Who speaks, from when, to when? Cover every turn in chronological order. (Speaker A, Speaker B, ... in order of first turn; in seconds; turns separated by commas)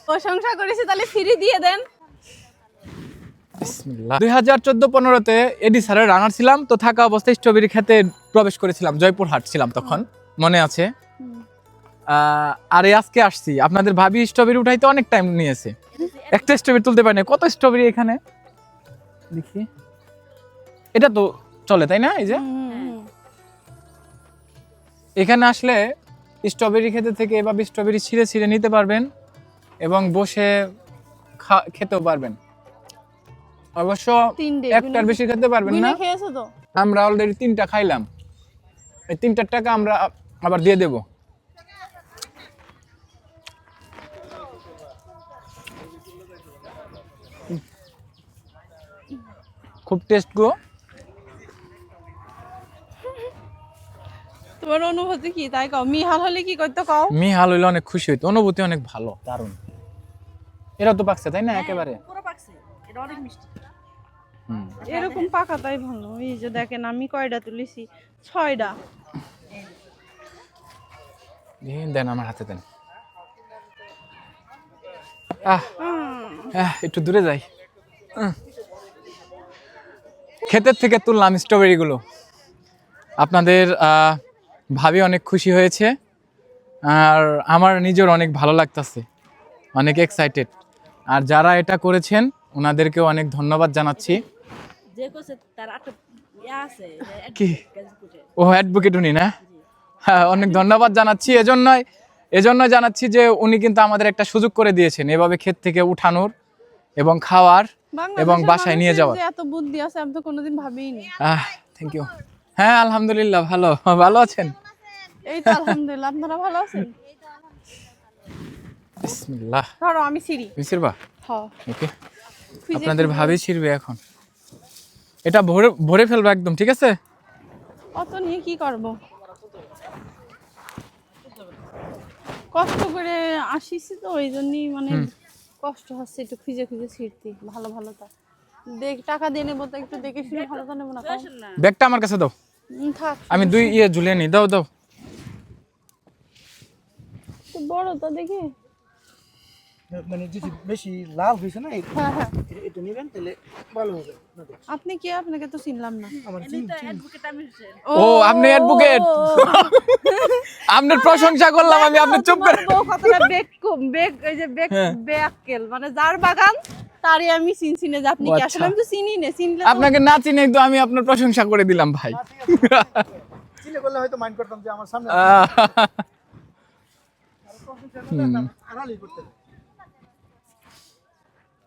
Speaker A: 0.1-1.8, Speaker B: 3.6-10.9, Speaker B: 12.1-15.8, Speaker C: 15.9-16.6, Speaker B: 16.3-18.2, Speaker B: 19.3-19.7, Speaker B: 20.9-22.5, Speaker A: 22.3-23.1, Speaker C: 22.7-23.0, Speaker B: 25.2-25.8, Speaker B: 26.4-29.1, Speaker B: 29.8-30.5, Speaker B: 31.4-32.4, Speaker B: 33.8-36.0, Speaker A: 34.4-36.5, Speaker B: 36.8-38.1, Speaker B: 39.1-41.0, Speaker B: 49.9-50.6, Speaker A: 54.6-57.2, Speaker B: 57.1-59.6, Speaker B: 60.8-62.0, Speaker C: 61.5-63.5, Speaker B: 64.5-64.8, Speaker C: 64.8-65.3, Speaker A: 64.8-68.8, Speaker B: 71.6-72.6, Speaker B: 75.4-75.7, Speaker A: 75.8-76.5, Speaker B: 76.5-77.4, Speaker B: 80.5-82.0, Speaker B: 83.2-84.2, Speaker B: 84.8-85.9, Speaker B: 86.9-89.0, Speaker B: 89.8-90.5, Speaker B: 91.1-94.2, Speaker C: 94.0-94.2, Speaker C: 94.9-98.3, Speaker B: 97.3-97.6, Speaker B: 98.4-99.3, Speaker B: 100.0-101.8, Speaker B: 102.4-106.3, Speaker B: 107.0-109.2, Speaker A: 108.0-111.1, Speaker B: 111.2-114.5, Speaker A: 115.3-117.0, Speaker B: 115.5-115.7, Speaker B: 119.0-119.7, Speaker A: 119.8-120.5, Speaker B: 120.6-121.0, Speaker A: 121.2-121.5, Speaker A: 122.7-123.4, Speaker B: 122.7-124.0, Speaker B: 125.3-127.0, Speaker A: 128.0-129.0, Speaker A: 132.5-135.1, Speaker A: 135.6-138.1, Speaker A: 138.8-141.3, Speaker C: 140.0-141.6, Speaker B: 141.6-142.3, Speaker A: 142.7-143.8, Speaker B: 143.3-144.7, Speaker A: 147.5-148.5, Speaker D: 149.9-154.6, Speaker A: 151.9-152.3, Speaker A: 154.7-156.2, Speaker C: 156.2-157.9, Speaker D: 156.3-157.0, Speaker A: 157.9-169.9, Speaker B: 157.9-163.3, Speaker B: 164.7-165.0, Speaker B: 168.2-168.8, Speaker B: 169.6-173.0, Speaker D: 172.2-173.0, Speaker D: 173.6-175.4, Speaker B: 175.1-176.0, Speaker D: 177.5-179.3, Speaker B: 178.1-178.5